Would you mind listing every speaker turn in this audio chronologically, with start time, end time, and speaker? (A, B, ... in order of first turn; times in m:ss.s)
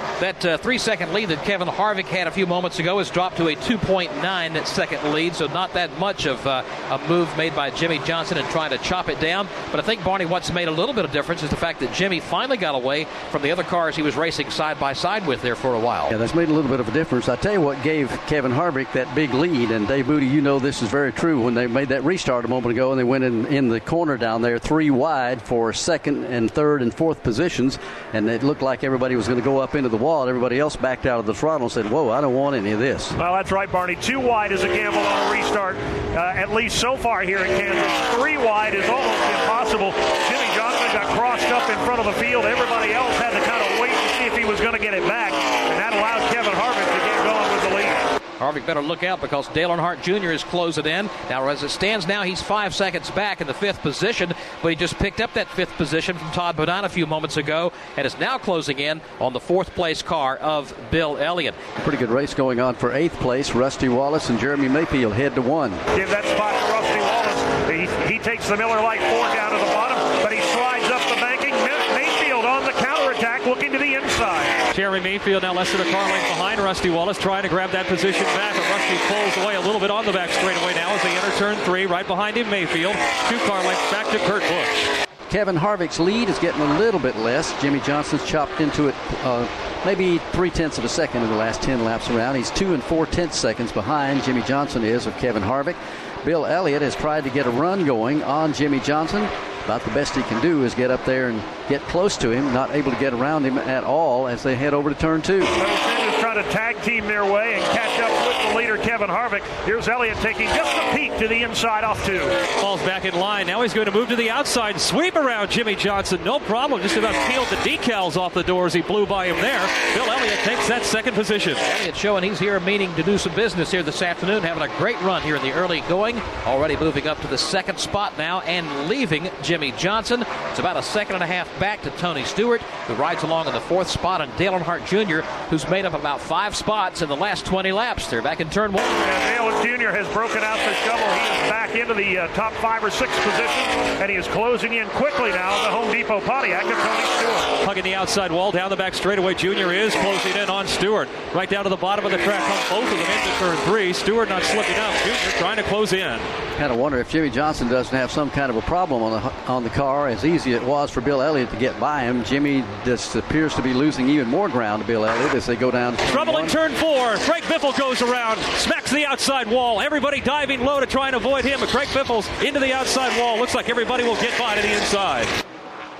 0:00.2-0:16.1 A
0:16.1-0:33.1 B
0:33.2-0:48.0 C
0:48.4-1:01.6 A
1:01.8-1:05.8 B
1:05.9-1:14.6 C
1:14.7-1:24.9 D
1:25.3-1:45.5 B
1:45.6-1:52.4 C
1:52.6-2:01.6 D
2:01.6-2:19.0 A
2:19.0-2:27.6 C
2:27.6-2:36.2 D
2:36.6-2:46.5 B
2:46.1-2:55.3 D